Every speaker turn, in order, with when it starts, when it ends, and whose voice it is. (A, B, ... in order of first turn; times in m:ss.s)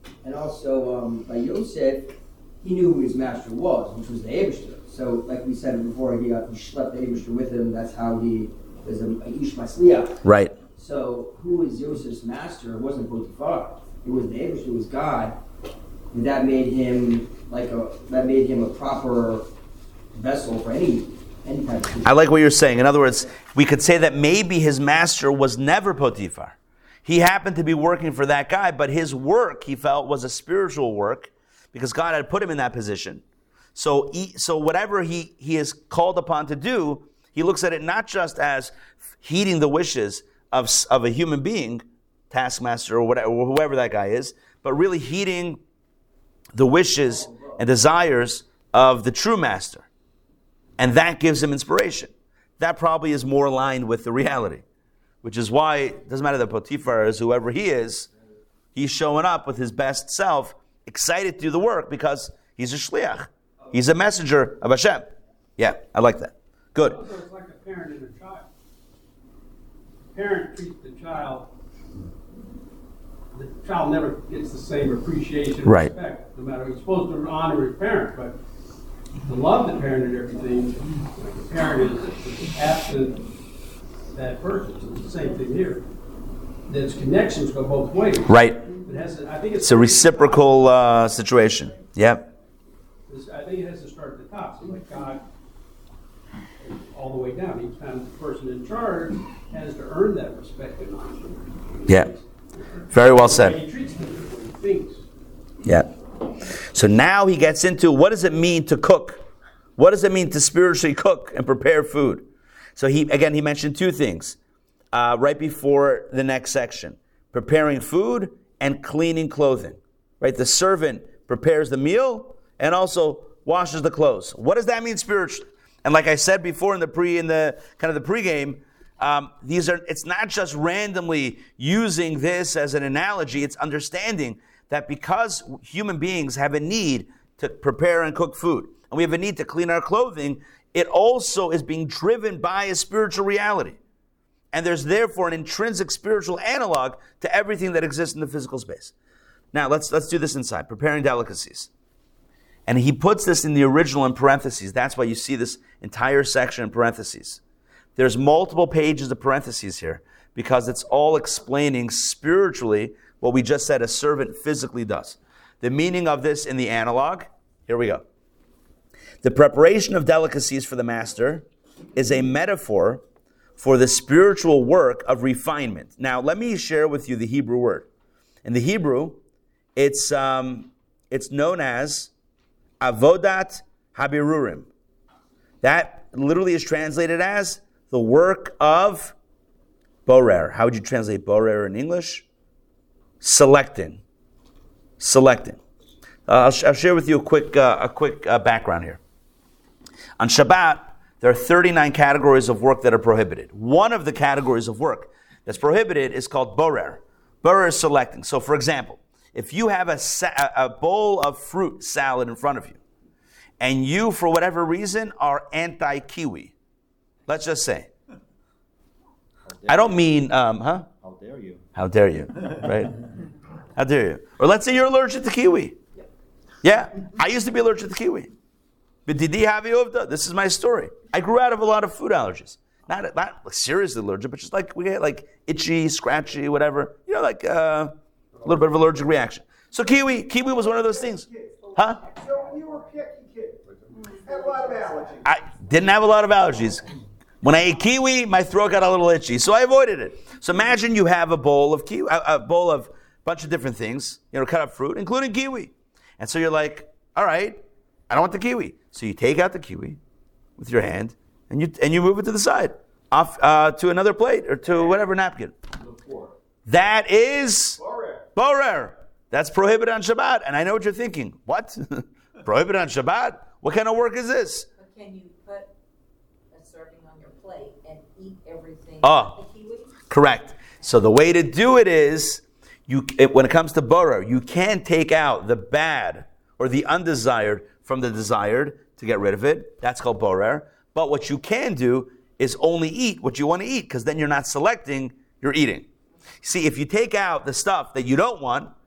0:00.2-0:10.2 A
0:10.2-0:10.6 B
0:10.7-0:15.4 A
0:16.1-0:19.5 A
0:20.1-0:22.2 A
0:22.0-0:33.2 B
0:33.7-0:45.6 B
0:46.5-0:49.8 B
0:50.8-0:54.6 B
0:55.2-0:58.1 B
0:58.7-1:07.0 B
1:06.8-1:08.5 C
1:10.1-1:11.5 C
1:13.3-1:18.4 C
1:15.6-1:15.9 B
1:19.2-1:23.3 C
1:24.1-1:25.8 C
1:26.7-1:30.6 C
1:28.3-1:28.6 B
1:29.6-1:32.3 B
1:33.1-1:35.2 C
1:36.6-1:45.0 C
1:42.9-1:43.6 B
1:45.6-1:45.9 B
1:46.7-1:49.2 B
1:49.8-1:54.4 B
1:54.9-2:23.8 B
2:24.5-2:28.9 B
2:29.5-2:31.7 B
2:32.7-2:37.4 B
2:38.0-2:48.0 B
2:49.2-2:53.0 B
2:53.6-2:57.9 B
2:58.4-2:59.2 B
2:59.8-3:02.1 B
3:02.8-3:04.7 B
3:05.6-3:09.1 B
3:10.0-3:12.2 B
3:13.2-3:14.0 B
3:15.0-3:15.6 B
3:16.3-3:19.0 B
3:20.2-3:32.8 B
3:33.6-3:36.5 B
3:37.3-3:37.9 B
3:39.6-3:40.9 B
3:41.7-3:43.0 B
3:43.8-3:45.8 B
3:46.6-3:48.3 B
3:49.0-4:02.0 B
4:00.3-4:05.3 D
4:05.2-4:06.8 B
4:07.4-4:20.0 B
4:20.6-4:25.5 B
4:25.8-4:26.3 D
4:26.6-4:27.8 B
4:27.8-4:28.3 D
4:28.3-4:34.7 B
4:34.8-4:35.7 E
4:36.5-4:39.9 E
4:39.0-4:39.4 B
4:40.1-4:55.9 B
4:56.4-4:58.7 B